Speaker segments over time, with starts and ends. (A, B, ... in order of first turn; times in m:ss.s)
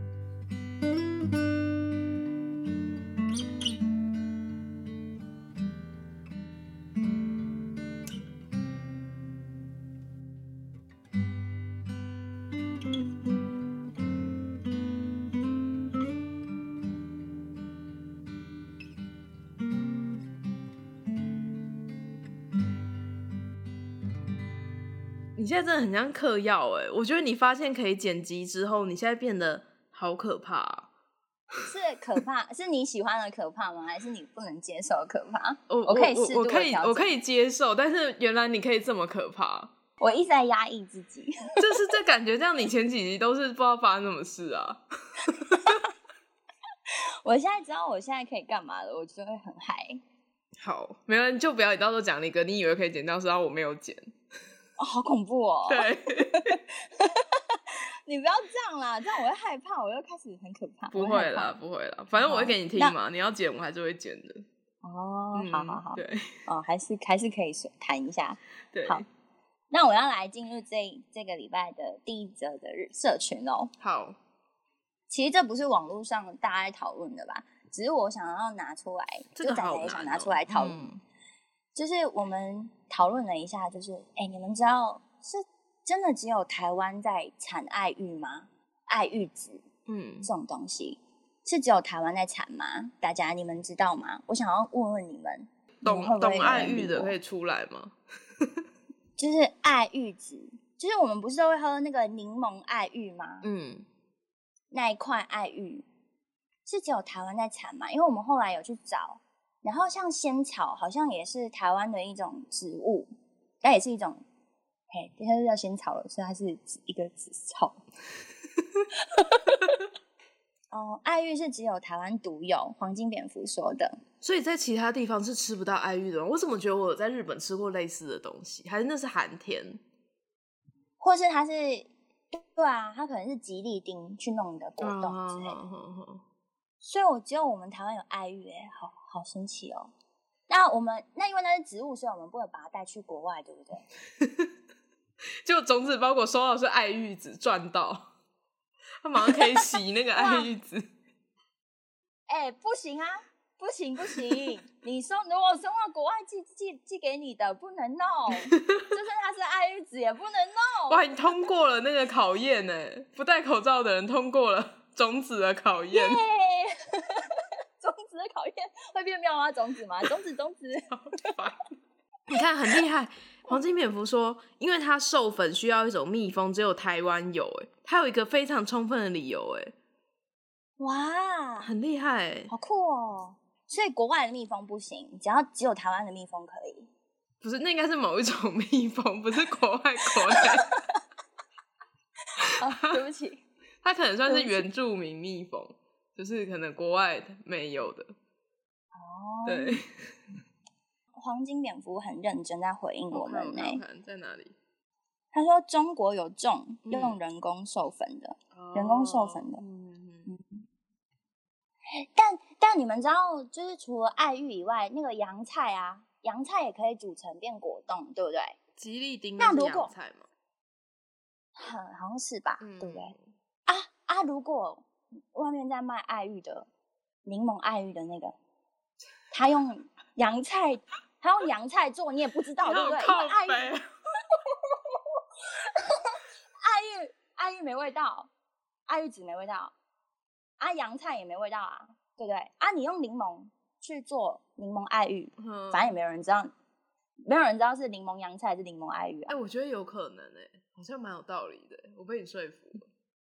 0:25.4-0:30.9 A
0:31.6-0:37.1 B
0:35.7-0:39.7 A
0:40.0-0:41.6 B
0:41.6-0:45.8 A
0:45.5-0:45.8 B
0:46.9-0:50.0 B
0:50.6-0:54.2 A
0:54.8-1:01.5 B
0:55.7-0:56.6 A
1:00.9-1:04.4 A
1:02.2-1:03.0 B
1:04.8-1:09.1 B
1:05.3-1:06.4 A
1:08.7-1:09.1 A
1:09.7-1:13.7 B
1:13.8-1:14.2 A
1:15.1-1:20.9 B
1:19.4-1:21.0 A
1:21.8-1:29.6 B
1:29.9-1:30.3 A
1:30.2-1:37.2 B
1:35.8-1:38.6 A
1:39.2-1:43.4 B
1:43.4-1:43.9 A
1:44.7-1:45.8 B
1:46.7-1:53.1 B
1:53.6-1:54.2 B
1:54.9-1:57.8 B
1:59.1-1:59.8 B
2:00.7-2:04.0 B
2:04.2-2:09.8 A
2:11.0-2:15.6 B
2:14.8-2:16.2 A
2:16.8-2:19.9 B
2:20.5-2:23.9 B
2:24.2-2:24.5 A
2:25.4-2:28.1 A
2:29.0-2:30.9 A
2:29.3-2:29.6 B
2:30.2-2:30.5 B
2:32.3-2:41.1 B
2:40.9-2:46.2 A
2:45.9-2:51.3 B
2:50.9-2:51.7 A
2:52.3-2:59.7 A
3:00.8-3:01.7 B
3:01.6-3:02.5 A
3:02.5-3:06.9 B
3:07.4-3:10.7 A
3:10.3-3:11.0 B
3:12.4-3:13.0 A
3:12.4-3:13.4 B
3:13.8-3:18.1 A
3:14.3-3:14.6 B
3:18.9-3:19.8 B
3:19.4-3:20.2 A
3:21.1-3:23.8 B
3:23.1-3:24.6 A
3:25.3-3:29.6 B
3:26.9-3:27.2 A
3:28.5-3:30.3 A
3:30.3-3:30.6 B
3:31.9-3:38.6 B
3:38.8-3:40.3 A
3:39.4-3:39.9 B
3:41.6-3:43.1 B
3:42.6-3:43.2 A
3:43.7-3:46.7 B
3:47.3-3:48.4 B
3:49.3-3:53.8 B
3:52.6-3:53.9 A
3:54.4-3:58.3 B
3:58.9-3:59.7 B
4:00.6-4:06.5 B
4:05.4-4:05.9 A
4:07.3-4:09.4 B
4:09.3-4:12.9 A